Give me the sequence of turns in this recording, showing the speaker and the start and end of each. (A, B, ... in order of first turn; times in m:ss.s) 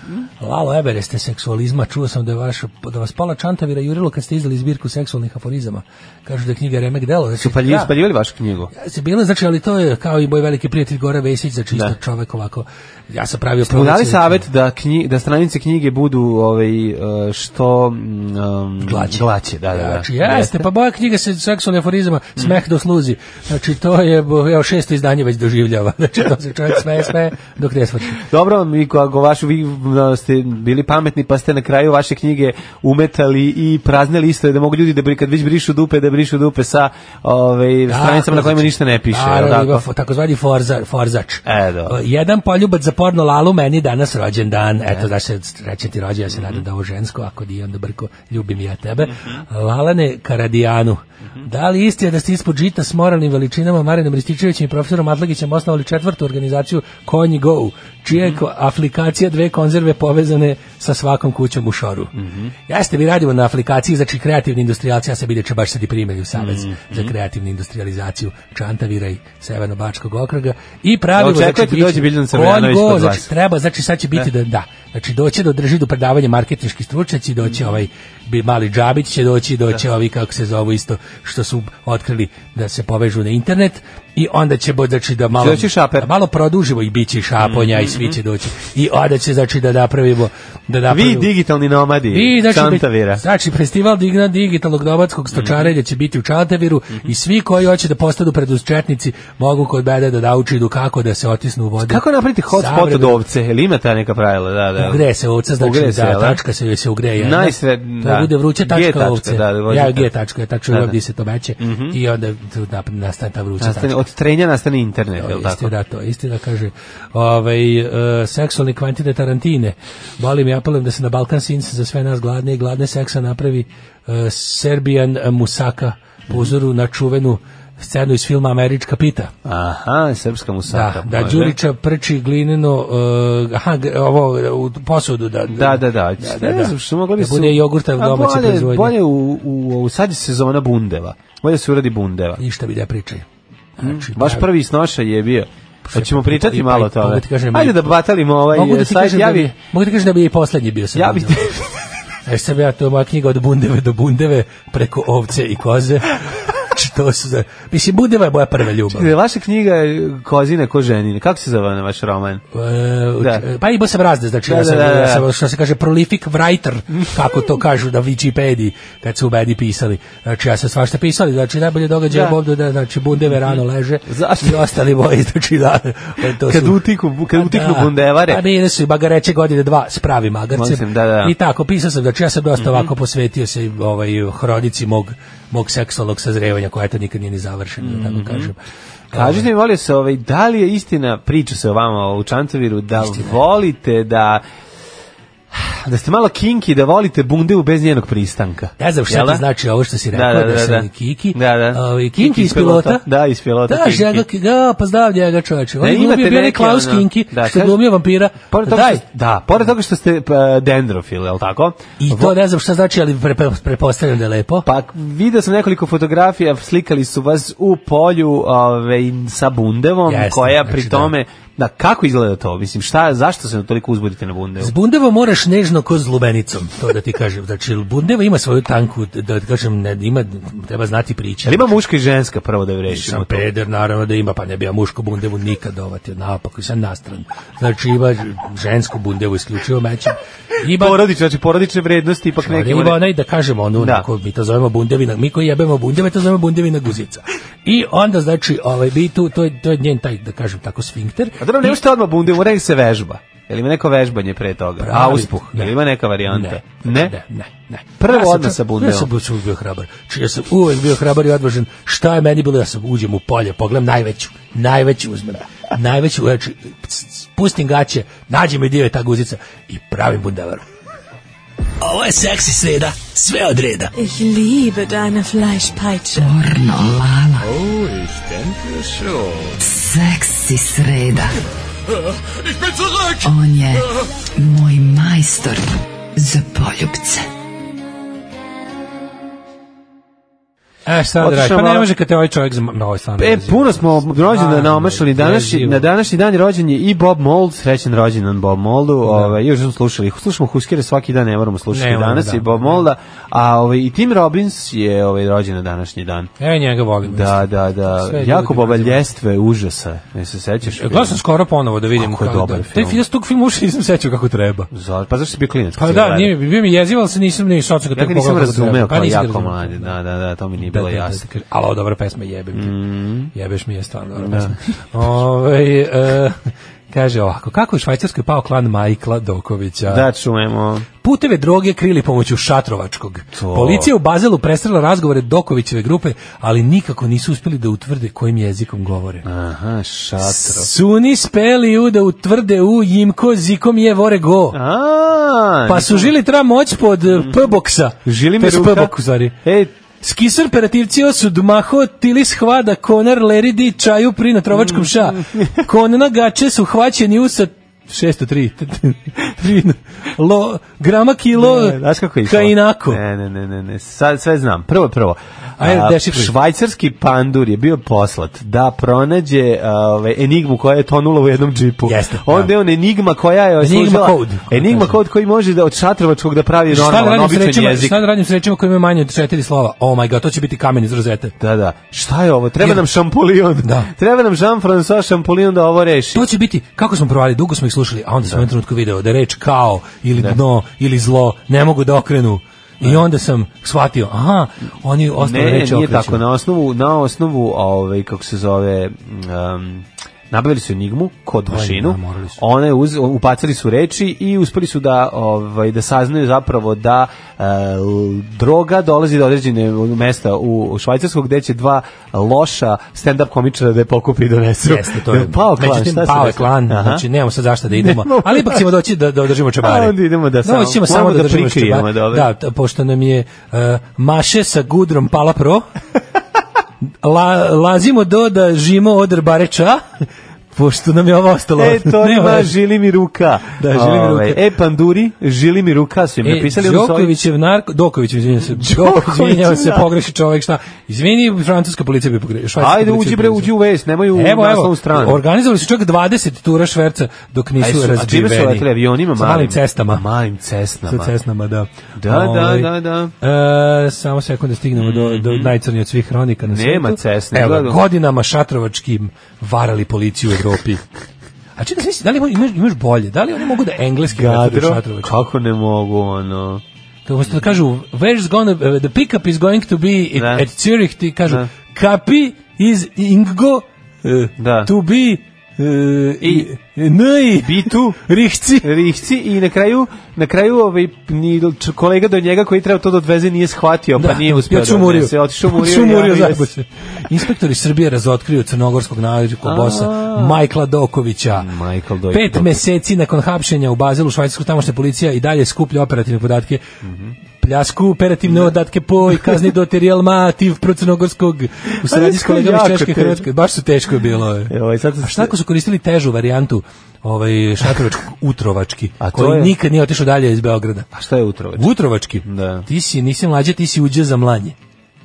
0:00.4-0:08.0 A
0:07.4-0:08.7 B
0:08.7-0:14.4 A
0:13.6-0:20.6 B
0:18.8-0:28.2 A
0:28.2-0:39.8 B
0:37.9-1:02.1 A
0:41.4-0:42.0 B
0:46.3-0:46.6 B
0:49.0-0:49.4 B
0:58.1-0:58.4 B
1:02.2-1:02.5 B
1:02.7-1:31.3 A
1:06.4-1:07.1 B
1:11.1-1:13.3 B
1:25.4-1:26.1 B
1:27.4-1:28.2 B
1:30.9-1:33.2 B
1:32.1-1:43.2 A
1:35.3-1:35.7 B
1:41.8-1:45.0 B
1:44.8-1:54.0 A
1:45.6-1:46.4 B
1:47.2-1:50.1 B
1:50.7-1:51.0 B
1:51.6-1:52.0 B
1:53.6-1:55.7 B
1:55.2-2:09.3 A
2:09.4-2:11.6 B
2:10.7-2:18.9 A
2:15.5-2:22.4 B
2:22.4-2:23.2 A
2:23.8-2:24.4 A
2:23.8-2:29.5 B
2:25.9-2:31.5 A
2:31.0-2:31.7 B
2:32.2-2:39.1 A
2:38.9-2:42.4 B
2:42.5-3:08.6 A
2:43.2-2:43.4 B
2:44.4-2:45.3 B
2:52.1-2:52.4 B
2:54.1-2:54.7 B
2:56.2-2:58.4 B
3:00.5-3:01.3 B
3:02.6-3:02.9 B
3:07.8-3:08.5 B
3:09.1-3:09.5 A
3:09.1-3:14.4 B
3:13.0-3:13.4 A
3:15.5-3:19.4 B
3:18.8-3:23.0 A
3:20.1-3:24.2 B
3:23.7-3:29.0 A
3:25.8-3:27.8 B
3:28.5-3:32.4 B
3:32.0-3:34.6 A
3:34.6-3:44.7 B
3:40.1-3:41.1 A
3:44.6-3:51.8 A
3:51.4-3:53.4 B
3:52.9-4:01.0 A
4:00.7-4:03.0 B
4:02.4-4:11.8 A
4:03.8-4:04.0 B
4:11.4-4:17.1 B
4:14.8-4:30.6 A
4:18.0-4:19.1 B
4:31.8-4:33.9 A
4:33.9-4:36.3 C
4:36.1-4:37.5 D
4:37.5-4:39.5 E
4:39.6-4:41.4 D
4:43.2-4:47.2 D
4:50.9-4:55.9 A
4:51.2-4:51.9 B
4:53.2-5:06.3 B
4:59.0-4:59.4 A
5:01.7-5:02.8 A
5:06.4-5:09.0 A
5:07.0-5:11.2 B
5:10.7-5:14.7 A
5:11.9-5:13.0 B
5:14.7-5:16.4 B
5:15.8-5:19.9 A
5:17.9-5:21.2 B
5:20.6-5:22.7 A
5:22.5-5:23.3 B
5:23.3-5:26.4 A
5:24.2-5:24.6 B
5:26.9-5:30.1 A
5:29.9-5:30.9 B
5:31.0-5:39.2 A
5:33.3-5:33.9 B
5:39.2-5:40.7 B
5:40.2-5:44.6 A
5:44.5-5:46.1 B
5:45.7-5:49.3 A
5:48.0-5:49.7 B
5:50.0-6:03.0 A
5:54.5-5:55.6 B
6:01.3-6:18.0 B
6:05.6-6:06.3 A
6:11.8-6:12.5 A
6:13.6-6:15.0 A
6:16.7-6:21.3 A
6:21.4-6:26.2 B
6:23.6-6:23.9 A
6:26.1-6:36.2 A
6:35.2-6:57.0 B
6:41.5-6:42.4 A
6:54.6-7:05.6 A
6:57.7-6:58.6 B
6:59.6-7:02.3 B
7:07.0-7:12.5 A
7:11.6-7:17.2 B
7:13.6-7:14.4 A
7:16.2-7:23.5 A
7:18.4-7:19.9 B
7:22.6-7:25.2 B
7:24.1-7:30.0 A
7:27.6-7:31.1 B
7:30.9-7:40.8 A
7:32.0-7:33.1 B
7:34.8-7:35.6 B
7:36.5-7:37.8 B
7:41.6-7:45.2 A
7:44.1-7:46.6 B
7:47.0-7:58.7 A
7:50.2-7:50.5 B
7:54.4-7:54.7 B
7:56.2-7:56.5 B
7:57.4-7:58.0 B
7:58.6-8:06.5 B
8:04.0-8:11.5 A
8:09.4-8:10.4 B
8:11.3-8:12.6 B
8:12.1-8:16.6 A
8:16.8-8:17.2 B
8:17.4-8:30.9 A
8:18.3-8:18.5 B
8:19.1-8:19.5 B
8:21.8-8:23.3 B
8:24.5-8:25.3 B
8:29.0-8:29.6 B
8:30.9-8:31.7 B
8:31.6-8:34.5 A
8:32.2-8:32.6 B